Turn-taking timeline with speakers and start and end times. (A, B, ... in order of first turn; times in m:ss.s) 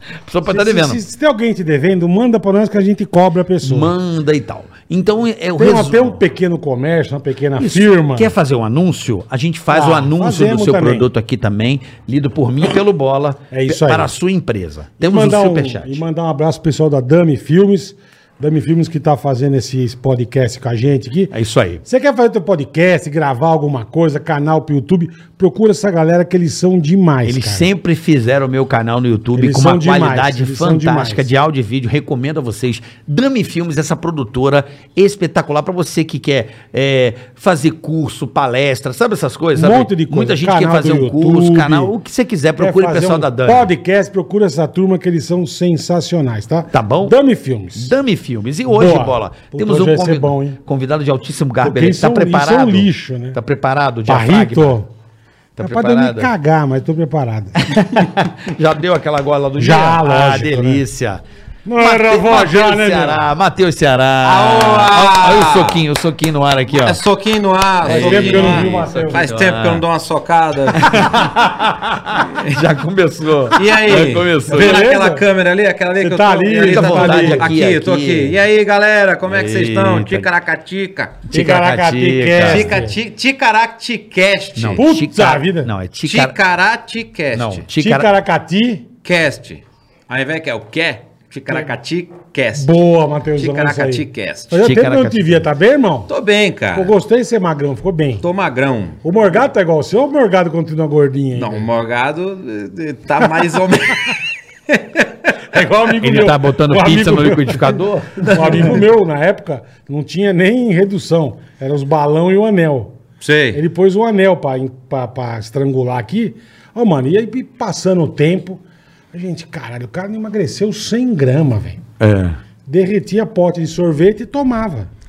0:00.2-0:01.0 A
0:00.4-0:03.9 B
0:03.6-0:06.2 A
0:05.6-0:08.3 B
0:07.6-0:16.0 A
0:09.7-0:11.1 B
0:13.5-0:14.1 B
0:15.0-0:21.3 B
0:21.3-0:21.8 A
0:21.8-0:27.7 B
0:27.2-0:43.7 A
0:29.3-0:31.2 B
0:39.5-0:41.9 B
0:42.6-0:48.0 B
0:46.7-0:47.1 A
0:47.8-0:54.8 A
0:48.7-0:50.6 B
0:51.6-0:53.4 B
0:54.1-0:54.9 B
0:55.6-0:56.3 A
0:55.6-0:57.8 B
0:57.6-1:01.2 A
0:59.6-1:00.8 B
1:01.6-1:03.3 B
1:01.8-1:07.0 A
1:04.2-1:05.8 C
1:06.7-1:11.2 C
1:07.8-1:09.8 A
1:07.8-1:09.3 B
1:10.7-1:14.8 A
1:12.2-1:12.6 C
1:13.5-1:21.2 C
1:14.5-1:15.2 B
1:16.0-1:17.5 B
1:16.6-1:18.3 A
1:19.3-1:20.3 A
1:21.3-1:22.8 A
1:21.3-1:23.0 B
1:22.4-1:24.8 C
1:24.6-1:26.3 A
1:24.8-1:25.7 B
1:26.0-1:27.6 C
1:27.3-1:28.1 A
1:27.7-1:28.9 B
1:29.0-1:32.7 C
1:32.6-1:36.1 B
1:33.4-1:34.6 C
1:34.5-1:35.5 A
1:36.1-1:36.9 C
1:36.7-1:38.2 B
1:38.2-1:39.0 C
1:39.0-1:41.7 B
1:41.4-1:45.1 C
1:45.5-1:52.9 B
1:46.0-1:48.8 A
1:48.2-1:48.8 C
1:53.2-1:53.6 C
1:53.5-2:01.8 B
2:02.0-2:02.4 A
2:02.6-2:04.9 B